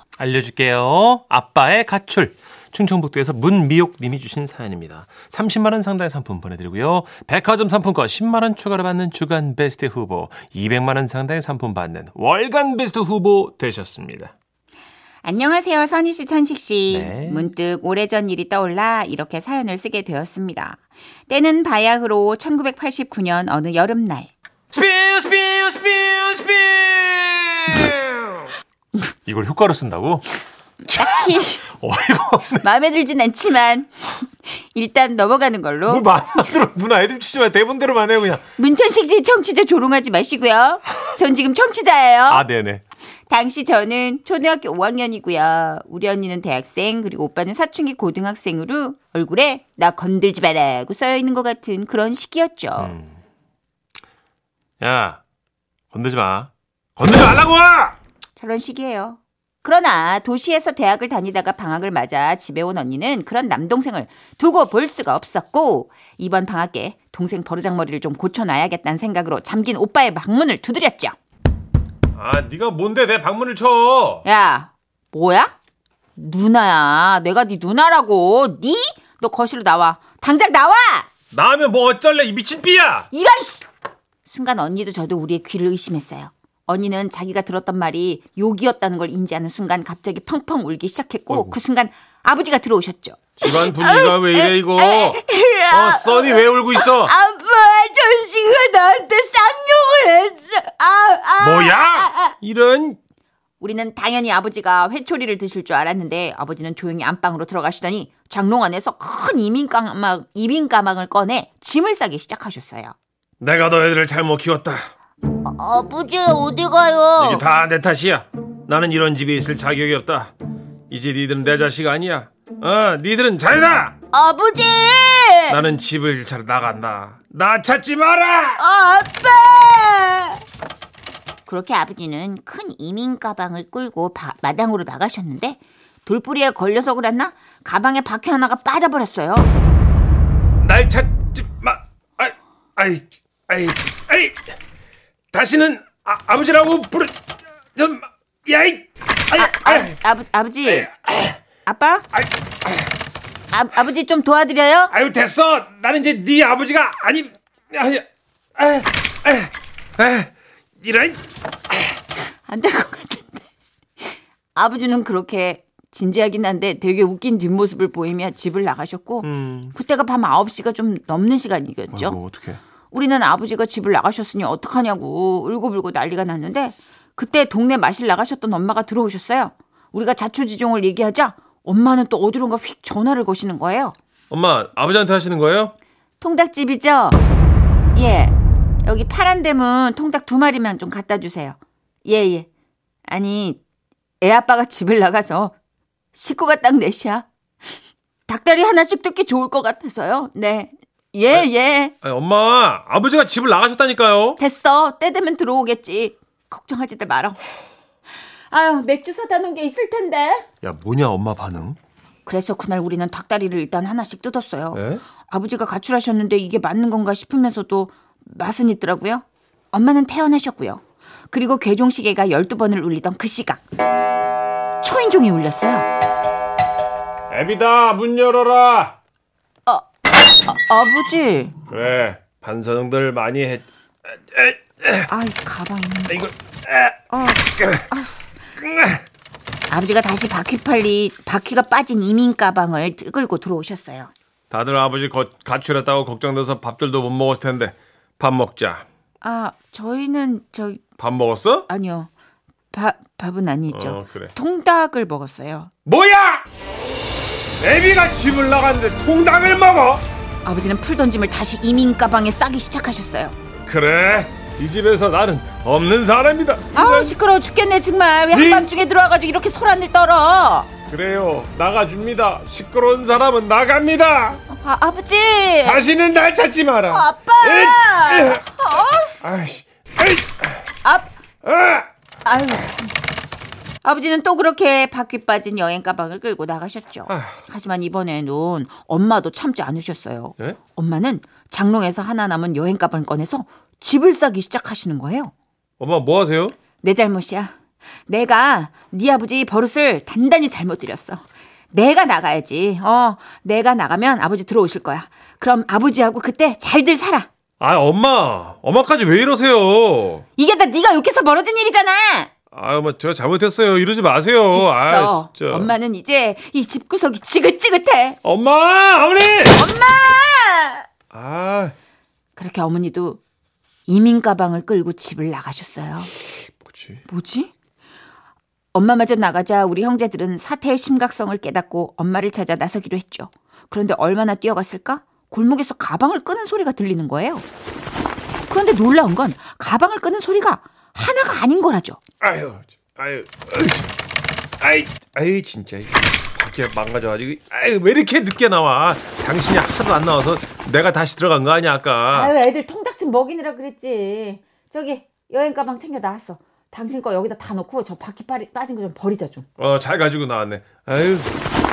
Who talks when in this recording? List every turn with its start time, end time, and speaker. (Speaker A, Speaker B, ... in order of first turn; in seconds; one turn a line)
Speaker A: 0.2-14.3
Speaker B: 15.2-24.3
Speaker A: 16.9-17.5
Speaker A: 24.7-28.4
Speaker A: 29.2-30.2
Speaker B: 30.9-31.6
Speaker A: 30.9-32.7
Speaker B: 32.6-36.0
Speaker A: 35.9-38.4
Speaker B: 38.6-42.5
Speaker A: 42.3-42.8
Speaker B: 43.3-53.0
Speaker A: 52.8-53.1
Speaker A: 54.8-55.2
Speaker A: 55.9-58.0
Speaker B: 58.4-71.2
Speaker A: 72.1-74.2
Speaker B: 74.2-75.5
Speaker B: 76.2-81.1
Speaker A: 81.3-83.1
Speaker B: 83.1-83.6
Speaker B: 84.2-102.3
Speaker A: 91.3-91.5
Speaker A: 93.4-97.1
Speaker A: 101.4-103.0
Speaker B: 103.6-112.9
Speaker A: 113.4-114.9
Speaker B: 115.4-117.4
Speaker A: 117.2-120.3
Speaker A: 120.9-123.9
Speaker B: 124.1-125.6
Speaker A: 125.5-128.6
Speaker B: 128.6-130.4
Speaker B: 131.4-139.5
Speaker A: 140.6-144.4
Speaker A: 145.3-147.2
Speaker A: 147.7-149.9
Speaker B: 149.3-150.9
Speaker A: 150.7-151.4
Speaker B: 151.6-152.1
Speaker A: 152.1-152.9
Speaker B: 153.5-154.9
Speaker A: 154.9-158.0
Speaker A: 158.6-161.2
Speaker B: 162.4-163.4
Speaker B: 164.5-172.2
Speaker A: 169.2-169.7
Speaker A: 171.9-172.6
Speaker B: 172.9-183.9
Speaker A: 184.3-185.7
Speaker B: 186.2-187.2
Speaker B: 187.9-192.5
Speaker B: 193.1-193.6
Speaker B: 194.2-195.5
Speaker B: 196.1-197.2
Speaker B: 198.3-201.9
Speaker A: 202.0-204.4
Speaker B: 204.4-207.4
Speaker B: 208.5-210.4
Speaker A: 210.6-211.8
Speaker B: 212.2-223.6
Speaker A: 214.7-215.0
Speaker B: 224.8-225.9
Speaker A: 227.3-228.9
Speaker B: 230.4-231.5
Speaker A: 231.7-235.1
Speaker B: 235.1-236.3
Speaker A: 236.1-237.0
Speaker B: 237.1-238.2
Speaker A: 237.6-237.8
Speaker A: 238.6-239.0
Speaker B: 239.7-244.1
Speaker A: 244.5-248.8
Speaker B: 249.2-250.8
Speaker A: 251.0-251.7
Speaker B: 251.7-252.1
Speaker B: 252.7-255.7
Speaker A: 253.7-254.3
Speaker A: 255.8-256.4
Speaker A: 257.6-260.0
Speaker B: 260.4-263.4
Speaker A: 263.6-267.2
Speaker B: 266.7-270.7
Speaker A: 268.3-268.7
Speaker A: 270.9-274.4
Speaker B: 274.5-275.8
Speaker A: 275.6-278.4
Speaker B: 276.9-279.4
Speaker A: 279.2-280.5
Speaker B: 280.8-281.1
Speaker A: 281.4-281.9
Speaker B: 282.2-282.9
Speaker B: 283.8-295.3
Speaker A: 287.1-287.4
Speaker A: 295.8-296.5
Speaker B: 296.8-297.5
Speaker B: 298.1-307.3
Speaker A: 307.6-310.2
Speaker B: 310.4-312.3
Speaker A: 312.5-315.7
Speaker B: 314.5-318.2
Speaker A: 318.2-319.6
Speaker B: 319.5-320.9
Speaker A: 321.1-321.7
Speaker B: 322.4-323.2
Speaker B: 323.9-326.1
Speaker A: 326.6-327.0
Speaker B: 327.1-327.5
Speaker B: 328.7-337.4
Speaker B: 338.5-342.0
Speaker A: 342.2-343.9
Speaker A: 344.6-352.3
Speaker B: 352.1-359.4
Speaker A: 359.6-361.3